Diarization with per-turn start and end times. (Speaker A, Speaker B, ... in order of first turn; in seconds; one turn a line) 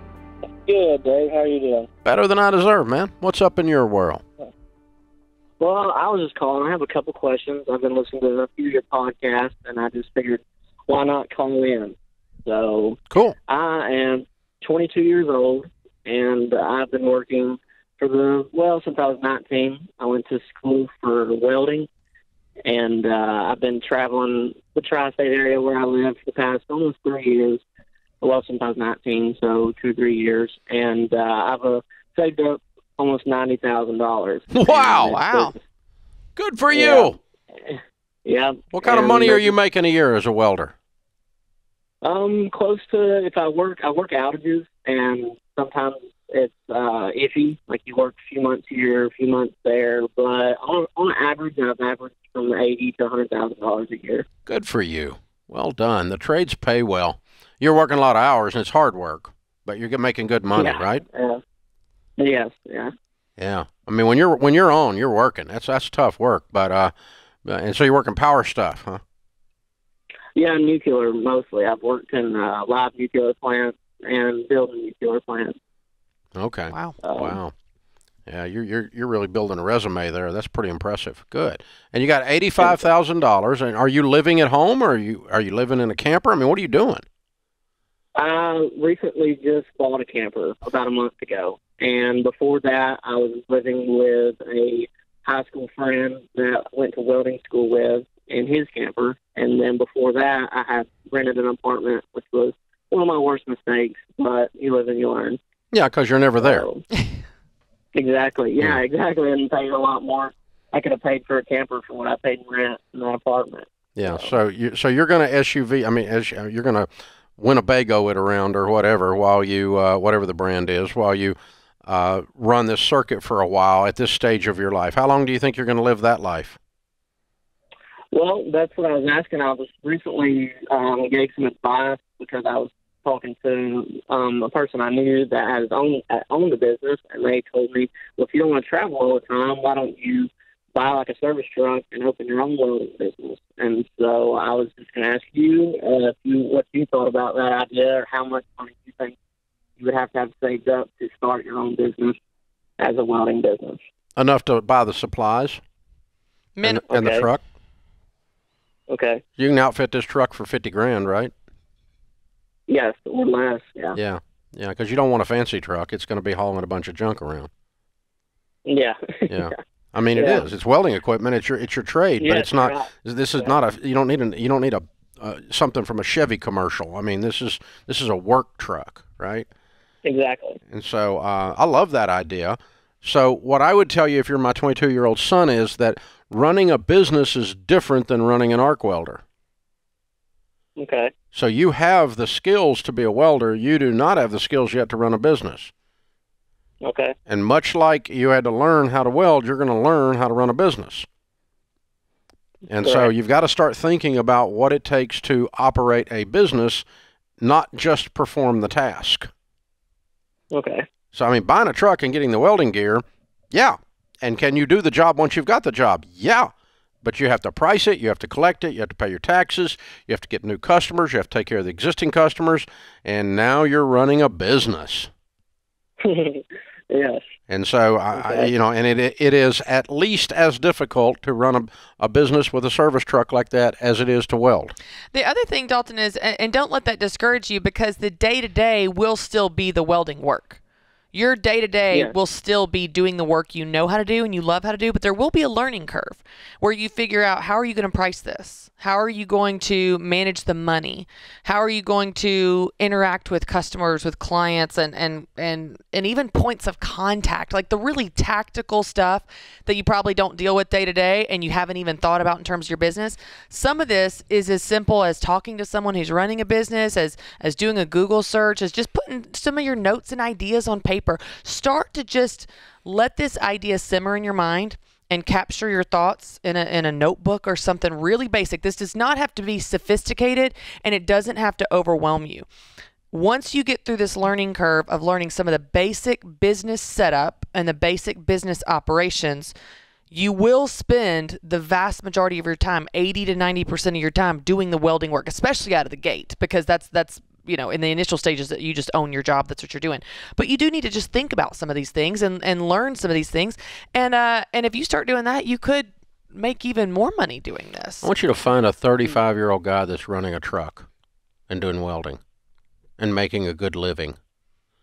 Speaker A: 0.7-1.9
Speaker B: 2.0-4.2
Speaker A: 5.6-21.9
Speaker B: 13.1-13.3
Speaker A: 22.6-27.6
Speaker A: 28.2-35.6
Speaker B: 34.5-35.2
Speaker C: 34.9-35.5
Speaker B: 36.4-37.2
Speaker A: 36.7-39.5
Speaker B: 38.7-40.7
Speaker A: 42.0-54.2
Speaker B: 54.5-61.0
Speaker A: 60.5-61.4
Speaker A: 62.2-62.9
Speaker B: 63.4-66.9
Speaker B: 67.4-69.0
Speaker A: 70.3-75.5
Speaker B: 76.3-77.5
Speaker C: 76.7-77.0
Speaker A: 77.0-77.4
Speaker B: 78.3-87.0
Speaker A: 82.6-82.9
Speaker A: 88.2-105.4
Speaker B: 105.7-106.7
Speaker A: 106.4-106.8
Speaker A: 107.9-114.3
Speaker B: 114.0-126.6
Speaker A: 128.1-149.2
Speaker A: 149.8-152.2
Speaker A: 152.8-153.8
Speaker B: 154.2-155.6
Speaker C: 156.6-156.8
Speaker B: 156.6-157.4
Speaker A: 156.9-157.3
Speaker A: 158.9-159.2
Speaker B: 159.4-161.3
Speaker A: 162.7-164.0
Speaker B: 163.9-167.5
Speaker A: 168.7-169.6
Speaker B: 169.3-179.5
Speaker A: 170.1-170.5
Speaker A: 172.2-173.6
Speaker A: 180.0-180.6
Speaker B: 180.7-189.2
Speaker A: 190.8-191.1
Speaker B: 191.3-195.7
Speaker A: 196.8-197.1
Speaker B: 197.3-201.1
Speaker B: 202.7-206.8
Speaker A: 202.8-203.1
Speaker B: 207.4-209.3
Speaker A: 210.5-210.8
Speaker B: 211.1-216.5
Speaker B: 217.0-225.1
Speaker A: 226.0-227.2
Speaker B: 227.5-234.7
Speaker A: 228.1-228.5
Speaker C: 235.1-240.6
Speaker C: 241.1-282.5
Speaker C: 283.1-289.5
Speaker C: 290.1-308.1
Speaker B: 308.0-310.9
Speaker B: 311.5-312.2
Speaker B: 313.0-314.2